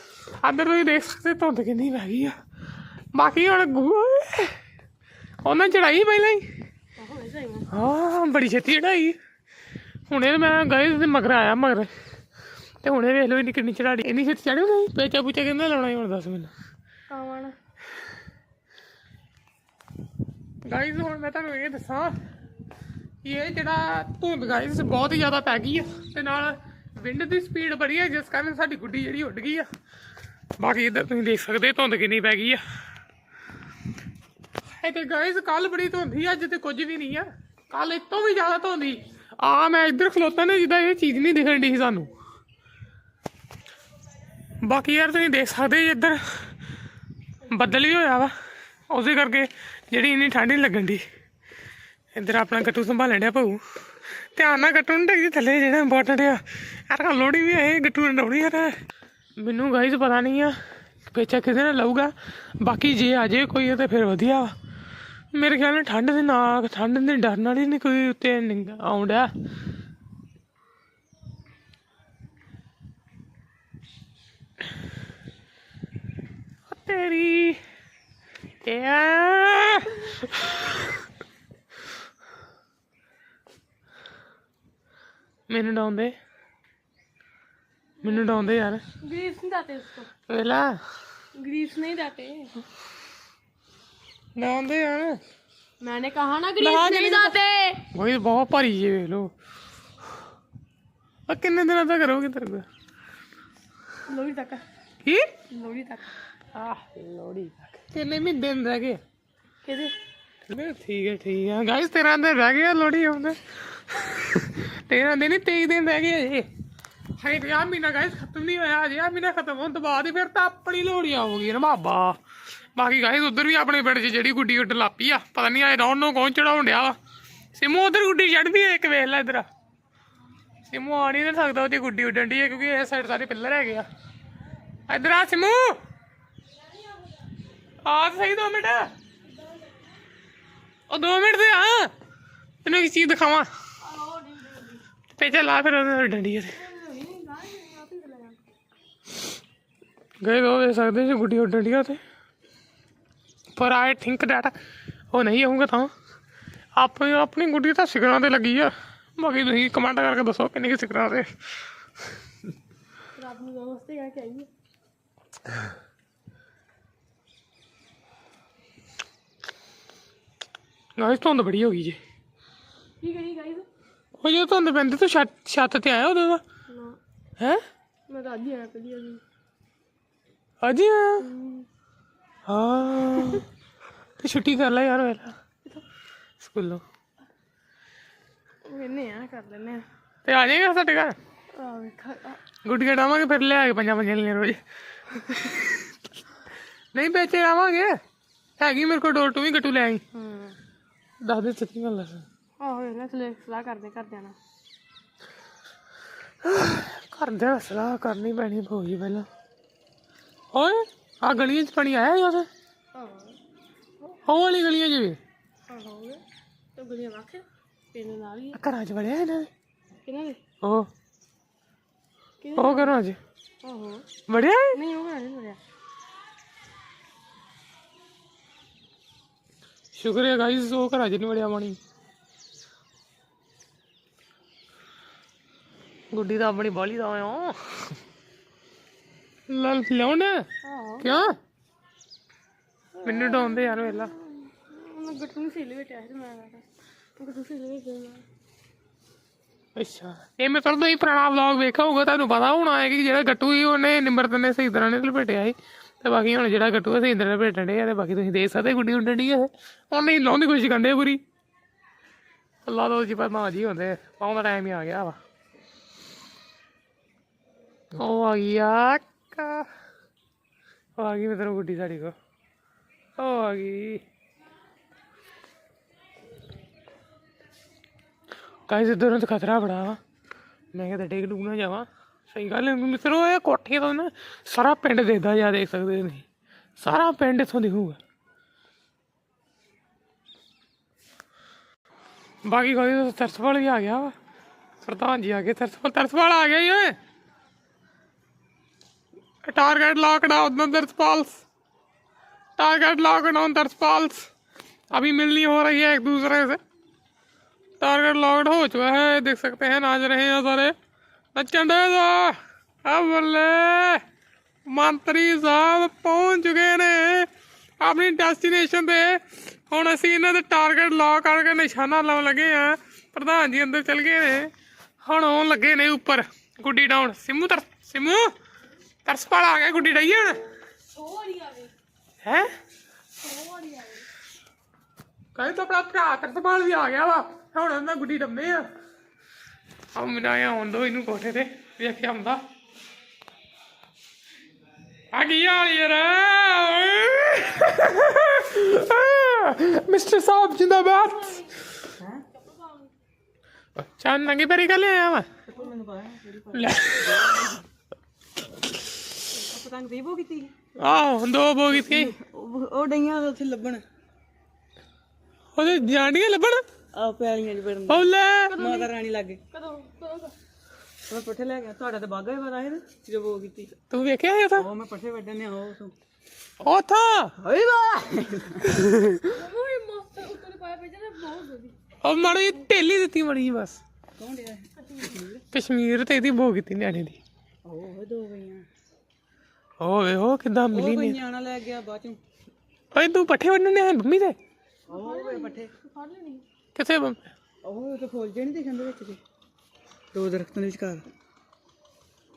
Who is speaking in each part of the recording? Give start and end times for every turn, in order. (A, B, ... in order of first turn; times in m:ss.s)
0:00.4-0:02.4 A
0:03.1-0:04.6 A
0:05.4-0:06.5 A
0:07.0-0:07.7 B
0:07.7-0:09.2 A
0:10.1-0:11.9 A
0:12.8-0:16.5 A
0:17.1-0:17.5 B
0:20.6-0:22.1 A
0:23.2-0:29.7 A
0:30.6-0:32.6 A
0:34.8-0:42.1 A
0:44.6-0:46.5 A
0:47.5-0:48.3 A
0:48.9-0:51.0 A
0:52.1-0:53.6 A
0:54.3-0:58.8 A
0:59.4-1:04.5 A
1:05.3-1:09.3 A
1:16.7-1:17.6 A
1:18.6-1:20.9 A
1:25.5-1:26.2 A
1:28.0-1:28.5 B
1:28.0-1:28.8 A
1:29.0-1:30.1 B
1:30.3-1:30.8 A
1:31.4-1:32.5 B
1:34.3-1:35.2 A
1:35.8-1:37.8 B
1:36.6-1:39.3 A
1:41.3-1:42.6 A
1:44.1-1:44.6 B
1:45.0-1:45.3 A
1:45.5-1:46.1 B
1:46.5-1:49.0 A
1:49.6-1:49.9 B
1:50.5-1:56.5 A
1:57.2-2:02.2 A
2:02.7-2:07.0 A
2:07.5-2:09.5 A
2:10.7-2:13.9 A
2:14.9-2:15.8 A
2:17.8-2:18.9 A
2:20.9-2:21.9 A
2:22.6-2:23.5 A
2:23.8-2:24.8 B
2:25.1-2:26.6 A
2:26.5-2:28.4 B
2:30.2-2:32.0 A
2:33.5-2:34.5 A
2:35.1-2:35.9 A
2:36.8-2:41.3 A
2:43.1-2:44.5 B
2:51.0-2:52.0 A
2:53.0-2:53.7 B
2:54.2-2:56.4 A
2:56.7-2:57.0 B
2:58.1-2:59.2 B
3:00.6-3:01.3 A
3:01.2-3:01.7 B
3:02.4-3:03.4 A
3:04.2-3:05.4 A
3:06.4-3:06.8 A
3:08.7-3:09.8 B
3:10.2-3:11.2 A
3:11.5-3:12.4 B
3:12.6-3:14.6 A
3:15.1-3:15.9 A
3:16.9-3:18.0 A
3:18.6-3:20.0 A
3:20.1-3:20.6 B
3:21.2-3:22.2 A
3:22.6-3:24.4 B
3:26.4-3:29.3 A
3:30.5-3:32.5 A
3:32.9-3:33.4 B
3:34.2-3:35.2 A
3:35.7-3:36.2 B
3:36.8-3:38.6 B
3:38.5-3:39.5 A
3:40.0-3:40.4 B
3:40.6-3:40.9 A
3:42.4-3:42.9 B
3:42.6-3:43.2 A
3:43.6-3:44.1 B
3:44.3-3:44.8 A
3:44.7-3:45.6 B
3:49.9-3:51.8 A
3:56.1-3:57.9 A
3:59.5-4:00.4 A
4:00.6-4:01.3 B
4:01.0-4:01.3 A
4:03.0-4:06.6 B
4:03.0-4:04.1 A
4:07.2-4:08.2 B
4:09.8-4:21.2 A
4:22.6-4:25.2 A
4:27.9-4:29.7 A
4:31.0-4:32.1 A
4:33.2-4:34.0 A
4:38.7-4:40.0 A
4:40.7-4:46.2 A
4:46.8-4:48.0 A
4:52.4-4:54.1 A
4:54.8-4:57.0 A
4:59.4-5:01.4 A
5:02.6-5:04.3 A
5:04.9-5:06.6 A
5:07.8-5:10.7 A
5:11.3-5:14.0 A
5:14.7-5:17.3 A
5:17.8-5:24.5 A
5:25.0-5:28.3 A
5:29.0-5:30.4 A
5:30.9-5:31.7 B
5:32.2-5:32.5 A
5:33.2-5:34.1 B
5:35.3-5:38.7 A
5:39.9-5:42.4 A
5:45.1-5:51.4 A
5:52.0-5:52.2 C
5:52.5-5:52.9 B
5:53.8-5:55.3 A
5:55.5-5:57.6 C
5:56.5-5:57.6 A
5:59.3-6:00.5 C
6:00.8-6:02.1 A
6:01.7-6:03.8 C
6:05.6-6:06.6 A
6:06.9-6:09.4 C
6:07.9-6:08.6 A
6:08.5-6:08.9 B
6:09.5-6:10.3 B
6:11.1-6:13.7 C
6:13.9-6:14.7 A
6:14.6-6:15.9 C
6:16.6-6:17.3 A
6:17.4-6:19.1 C
6:18.8-6:19.2 A
6:19.2-6:21.8 B
6:22.0-6:23.8 A
6:24.2-6:25.4 C
6:25.5-6:27.2 A
6:27.6-6:28.7 C
6:29.8-6:31.2 A
6:30.7-6:32.2 C
6:32.9-6:34.4 A
6:34.9-6:35.7 C
6:34.9-6:36.4 B
6:36.7-6:37.2 A
6:37.6-6:39.2 C
6:40.1-6:41.0 C